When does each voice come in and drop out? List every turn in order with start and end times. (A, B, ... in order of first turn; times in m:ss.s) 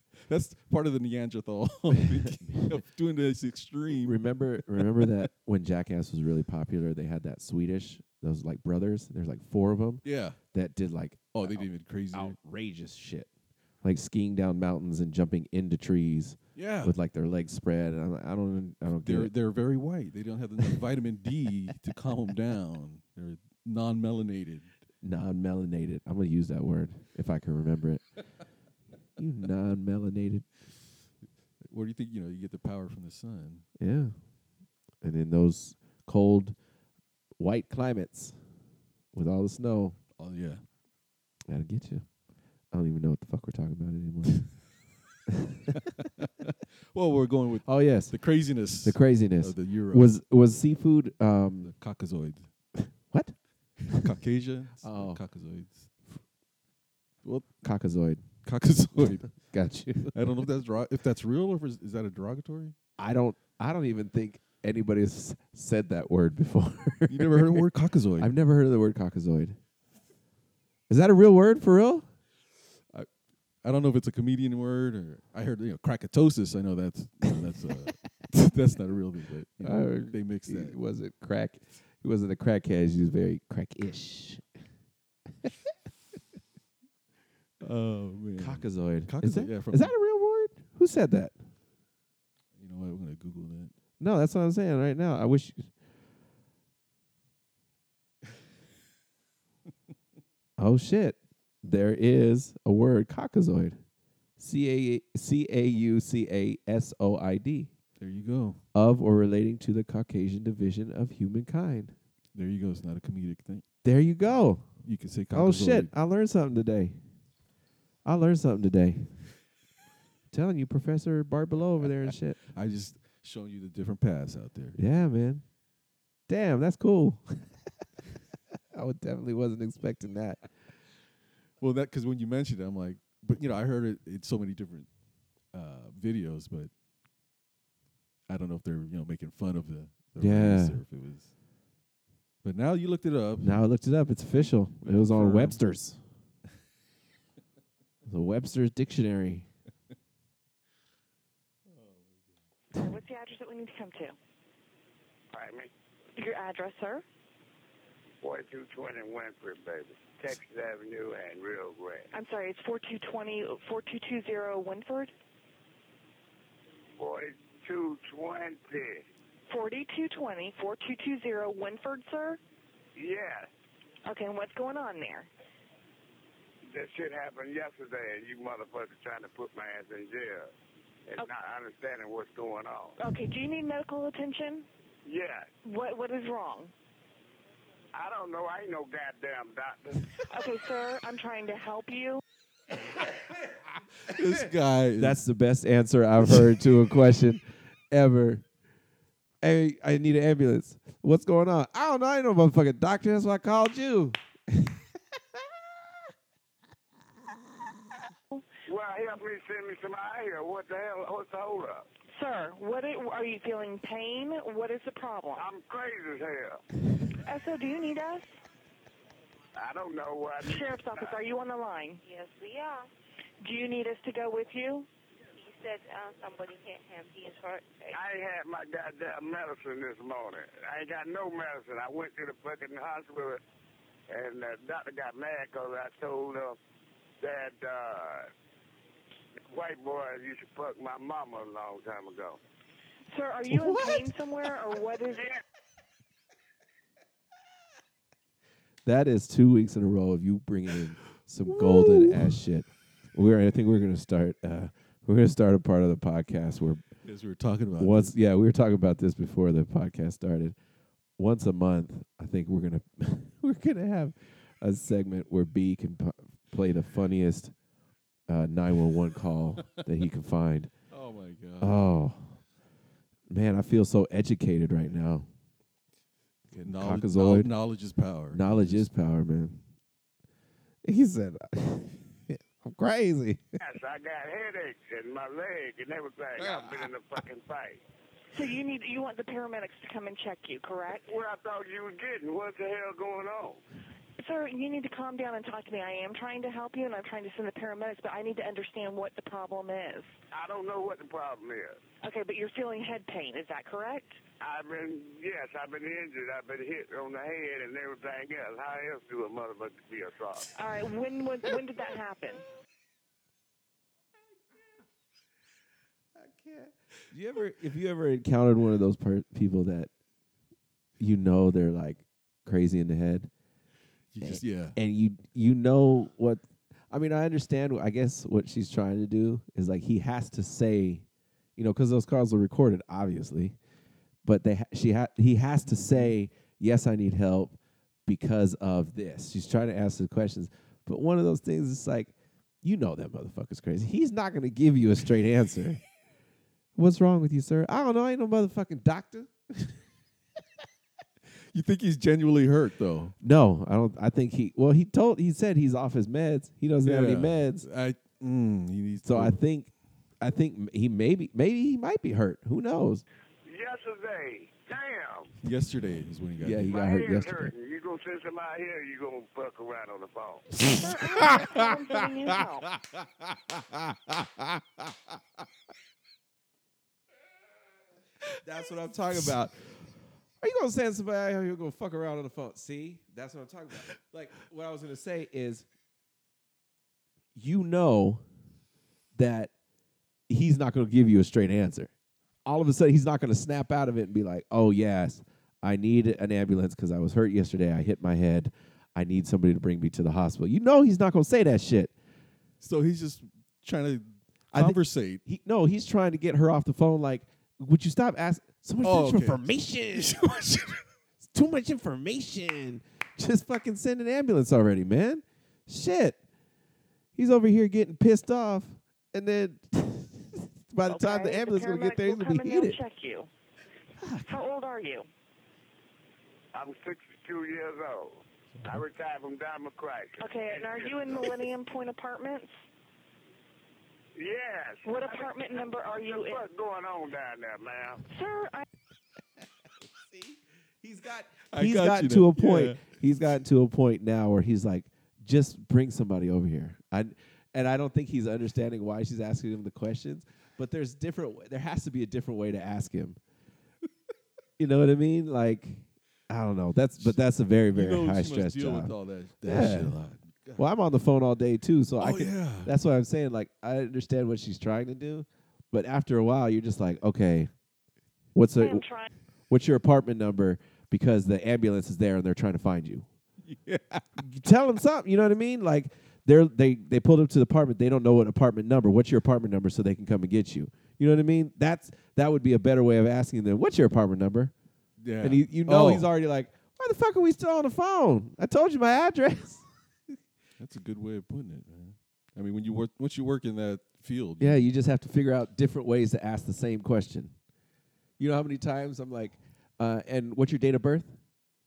0:00.2-0:05.3 A
0:04.0-0:13.3 B
0:10.0-0:10.4 A
0:11.4-0:12.4 A
0:13.8-0:19.3 B
0:16.6-0:17.0 A
0:19.0-0:24.7 A
0:25.0-0:28.0 B
0:29.2-0:30.5 B
0:31.6-0:33.7 A
0:33.8-0:34.2 B
0:35.0-0:36.6 B
0:37.4-0:38.4 B
0:39.1-0:40.0 B
0:40.2-0:40.6 A
0:41.5-0:42.1 B
0:42.7-0:44.6 B
0:46.0-0:50.1 A
0:47.6-0:51.7 B
0:51.6-0:52.5 A
0:52.8-0:54.1 B
0:53.8-0:56.0 A
0:54.8-0:55.2 B
0:57.2-0:57.5 A
0:57.6-0:58.3 B
0:58.4-0:59.4 A
0:59.4-1:00.1 B
1:00.1-1:02.8 A
1:03.0-1:07.7 B
1:07.1-1:08.3 A
1:08.2-1:09.6 B
1:10.9-1:12.1 B
1:13.6-1:20.8 A
1:19.6-1:24.4 B
1:27.6-1:29.9 A
1:28.4-1:31.4 B
1:32.6-1:33.7 A
1:34.0-1:35.7 B
1:40.6-1:43.8 B
1:44.4-1:47.7 B
1:48.0-1:48.6 A
1:48.7-1:52.0 B
1:52.3-1:53.6 A
1:53.8-1:54.7 B
1:54.8-1:55.9 A
1:55.3-1:57.0 B
1:58.0-1:59.2 B
2:00.3-2:02.4 B
2:02.5-2:04.8 A
2:04.8-2:05.4 B
2:06.3-2:07.5 B
2:08.7-2:10.4 B
2:11.6-2:14.9 A
2:15.5-2:16.7 A
2:18.3-2:21.3 A
2:20.2-2:20.8 B
2:22.4-2:23.6 A
2:23.4-2:26.0 B
2:24.8-2:25.6 A
2:28.1-2:29.5 B
2:31.7-2:32.2 A
2:32.8-2:34.2 C
2:35.3-2:35.7 D
2:36.2-2:37.0 C
2:38.2-2:42.1 D
2:42.1-2:45.1 C
2:47.0-2:49.1 D
2:49.5-2:52.4 C
2:53.0-2:53.5 D
2:54.0-2:55.3 C
2:56.7-3:00.5 D
3:01.1-3:03.0 D
3:03.0-3:04.7 C
3:05.0-3:05.5 D
3:05.6-3:06.7 C
3:07.9-3:10.2 D
3:10.3-3:12.2 C
3:14.0-3:15.2 A
3:15.0-3:18.4 B
3:16.3-3:16.6 A
3:19.4-3:24.8 B
3:28.7-3:31.9 D
3:32.1-3:35.5 C
3:35.4-3:36.6 D
3:37.2-3:38.3 C
3:39.6-3:41.2 D
3:40.4-3:42.0 C
3:42.0-3:42.9 E
3:43.4-3:44.9 C
3:45.4-3:48.0 E
3:47.9-3:53.4 D
3:54.1-3:56.6 D
3:57.2-3:58.3 D
3:59.5-4:02.4 D
4:03.1-4:05.3 C
4:03.5-4:04.1 B
4:05.1-4:05.4 D
4:08.8-4:16.8 B
4:11.5-4:12.2 A
4:17.0-4:18.1 A
4:17.8-4:20.6 B
4:21.2-4:27.5 B
4:28.3-4:30.7 B
4:30.9-4:31.8 A
4:31.6-4:32.4 B
4:33.3-4:35.3 B
4:36.5-4:37.5 B
4:36.6-4:38.9 A
4:38.3-4:39.6 B
4:40.8-4:43.6 B
4:43.6-4:47.8 D
4:48.3-4:51.1 C
4:51.1-4:53.6 D
4:54.2-5:00.1 C
5:00.3-5:01.8 D
5:02.0-5:04.2 C
5:04.4-5:10.5 D
5:10.6-5:12.4 C
5:16.2-5:19.9 B
5:21.0-5:23.3 B
5:24.1-5:24.8 A
5:24.2-5:31.0 B
5:31.6-5:33.6 B
5:34.2-5:45.8 B
5:35.7-5:36.1 A
5:46.8-5:49.8 B
5:51.5-5:53.1 A
5:53.2-5:57.7 B
5:56.8-5:59.4 A
5:59.0-6:03.0 B
6:03.5-6:05.3 D
6:05.4-6:06.8 A
6:06.4-6:07.5 B
6:06.7-6:10.5 D
6:10.6-6:11.6 B
6:10.6-6:12.7 C
6:12.9-6:15.2 B
6:18.4-6:19.6 B
6:20.4-6:25.7 B
6:27.4-6:28.2 B
6:29.2-6:29.5 B
6:30.3-6:31.9 B
6:32.4-6:41.9 B
6:42.6-6:45.2 A
6:44.5-6:50.5 B
6:48.8-6:50.8 A
6:51.2-6:56.2 B
6:57.2-7:02.8 B
7:00.9-7:03.3 C
7:04.0-7:04.3 B
7:04.3-7:05.1 C
7:06.5-7:11.4 D
7:08.5-7:08.8 A
7:10.2-7:12.5 C
7:14.2-7:18.0 D
7:14.8-7:16.4 C
7:18.1-7:18.6 C
7:20.0-7:33.2 B
7:21.5-7:22.8 A
7:34.6-7:38.9 B
7:37.0-7:40.6 A
7:39.4-7:40.0 B
7:40.6-7:47.5 B
7:42.0-7:42.7 A
7:48.4-7:48.9 B
7:48.6-7:49.1 C
7:49.5-7:53.1 B
7:53.5-7:54.2 A
7:54.2-8:04.5 B
8:05.0-8:06.1 A
8:05.2-8:09.6 B
8:10.6-8:14.7 A
8:14.4-8:17.3 B
8:18.2-8:21.2 B